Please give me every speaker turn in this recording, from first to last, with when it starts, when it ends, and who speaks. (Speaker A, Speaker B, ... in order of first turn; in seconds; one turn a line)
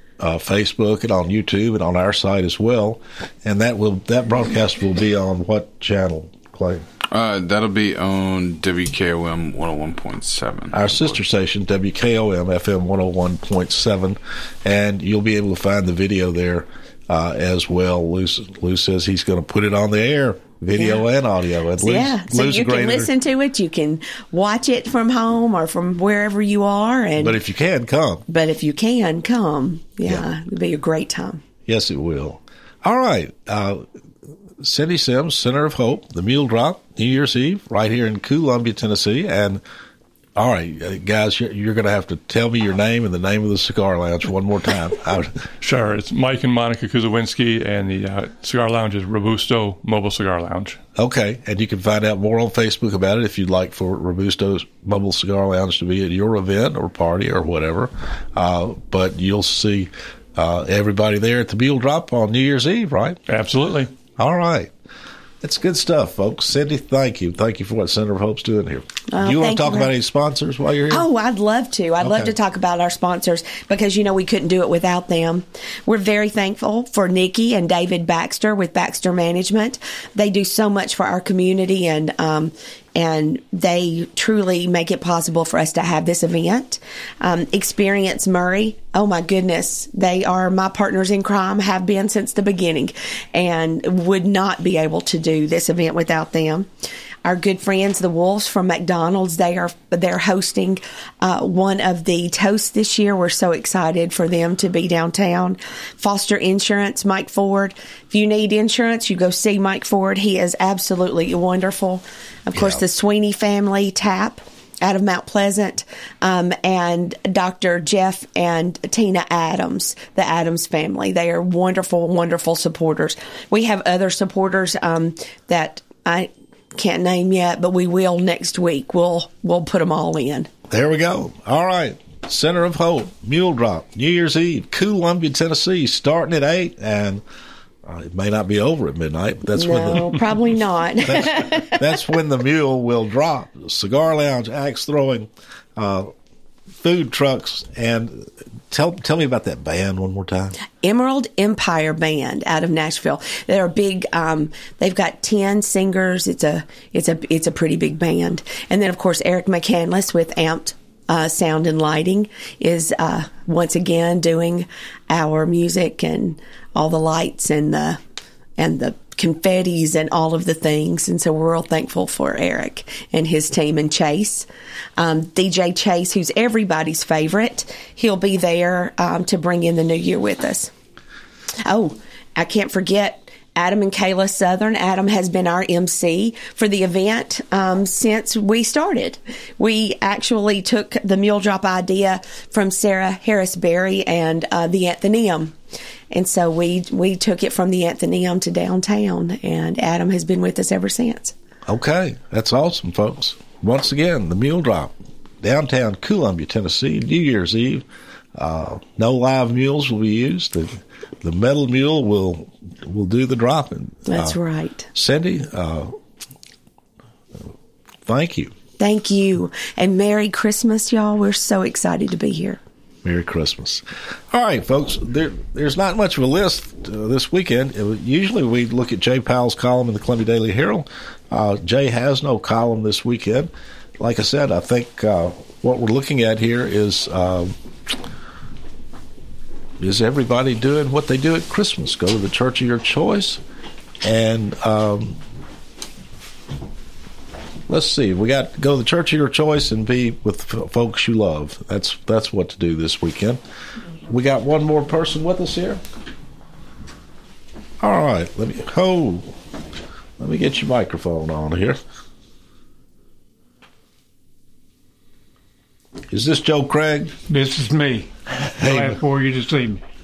Speaker A: 0.2-6.8
Speaker B: 7.1-11.2
Speaker A: 10.7-23.1
Speaker C: 21.8-27.4
Speaker A: 27.2-28.2
Speaker C: 28.3-31.4
Speaker A: 31.7-33.9
Speaker A: 34.6-39.6
Speaker A: 40.4-45.4
Speaker D: 45.6-50.8
Speaker A: 51.0-63.2
Speaker D: 63.3-63.9
Speaker A: 64.2-64.7
Speaker A: 65.4-71.1
Speaker C: 69.1-69.9
Speaker C: 70.9-96.7
Speaker A: 72.0-72.3
Speaker C: 97.2-130.5
Speaker A: 112.5-112.8
Speaker A: 130.7-137.2
Speaker A: 137.9-140.2
Speaker C: 139.5-141.8
Speaker A: 141.1-146.1
Speaker A: 146.8-150.6
Speaker C: 150.8-168.0
Speaker C: 168.6-174.5
Speaker C: 175.0-180.7
Speaker C: 181.7-195.5
Speaker C: 196.1-201.3
Speaker A: 201.7-207.8
Speaker A: 208.4-214.4
Speaker C: 214.1-214.9
Speaker A: 214.9-215.9
Speaker A: 218.1-218.5
Speaker C: 218.8-222.6
Speaker A: 223.0-237.5
Speaker A: 239.8-243.4
Speaker A: 244.0-245.2
Speaker A: 247.7-253.4
Speaker A: 254.1-255.8
Speaker A: 257.8-259.3
Speaker A: 260.2-261.8
Speaker A: 266.1-267.1
Speaker E: 267.3-269.8
Speaker A: 268.5-269.0